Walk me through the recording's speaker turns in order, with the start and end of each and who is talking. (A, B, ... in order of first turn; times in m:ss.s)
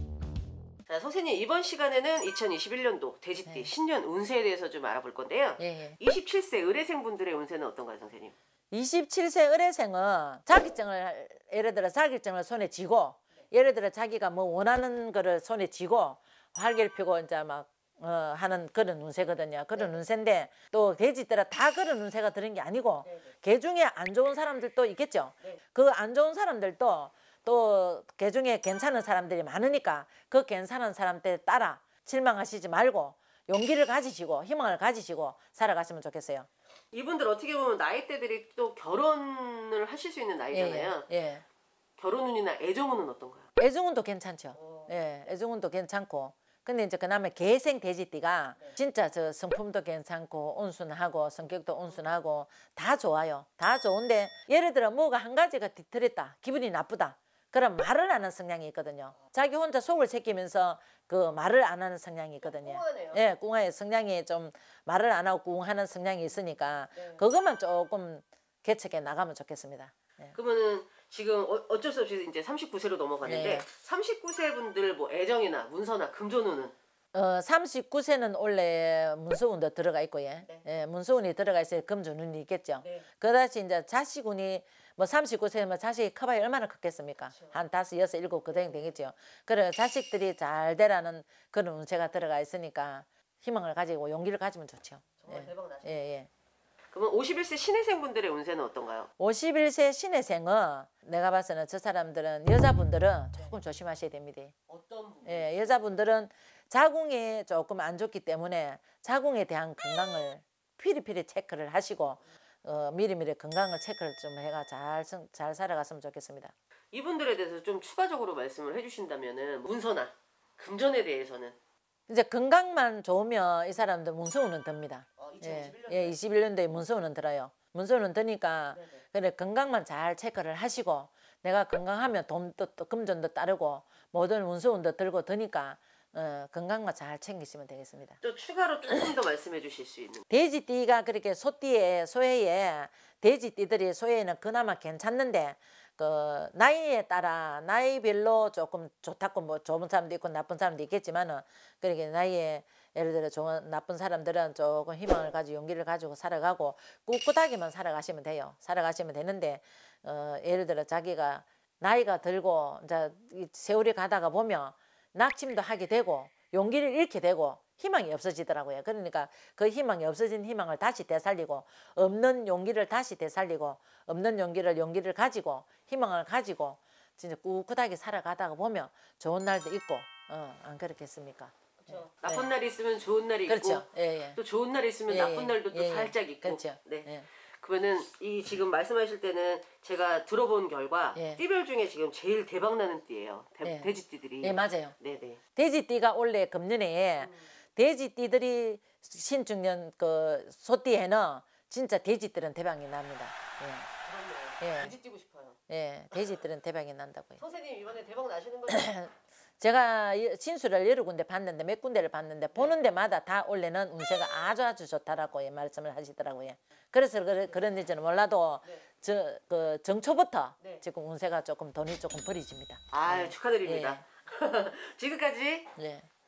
0:00.9-0:08.3 A
0:05.6-0:06.0 B
0:08.7-0:36.5 B
0:19.7-0:20.0 A
0:23.0-0:23.3 A
0:36.9-0:41.1 A
0:40.5-0:41.4 B
0:42.0-0:43.5 A
0:43.6-1:10.4 B
0:44.5-0:44.9 A
1:02.4-1:03.2 A
1:06.9-1:07.2 A
1:10.3-1:16.7 A
1:13.2-1:13.6 B
1:17.1-1:36.3 B
1:22.8-1:23.1 A
1:27.3-1:27.6 A
1:28.5-1:28.9 A
1:35.2-1:36.1 A
1:36.9-1:39.1 A
1:39.2-1:44.5 B
1:44.7-1:45.8 A
1:45.2-1:56.5 B
1:56.9-2:01.6 A
2:02.1-2:18.2 B
2:05.2-2:06.2 A
2:08.7-2:09.0 A
2:18.2-2:20.3 A
2:20.3-3:02.5 B
3:01.8-3:15.4 A
3:03.5-3:04.4 B
3:05.1-3:07.3 B
3:11.1-3:11.4 B
3:13.6-3:13.9 B
3:14.4-3:14.9 B
3:15.6-3:23.9 B
3:17.2-3:17.5 A
3:24.0-3:25.6 A
3:24.6-3:24.9 B
3:25.7-3:27.4 B
3:27.4-3:29.0 A
3:28.7-3:44.0 B
3:42.9-3:45.7 A
3:45.8-3:46.1 B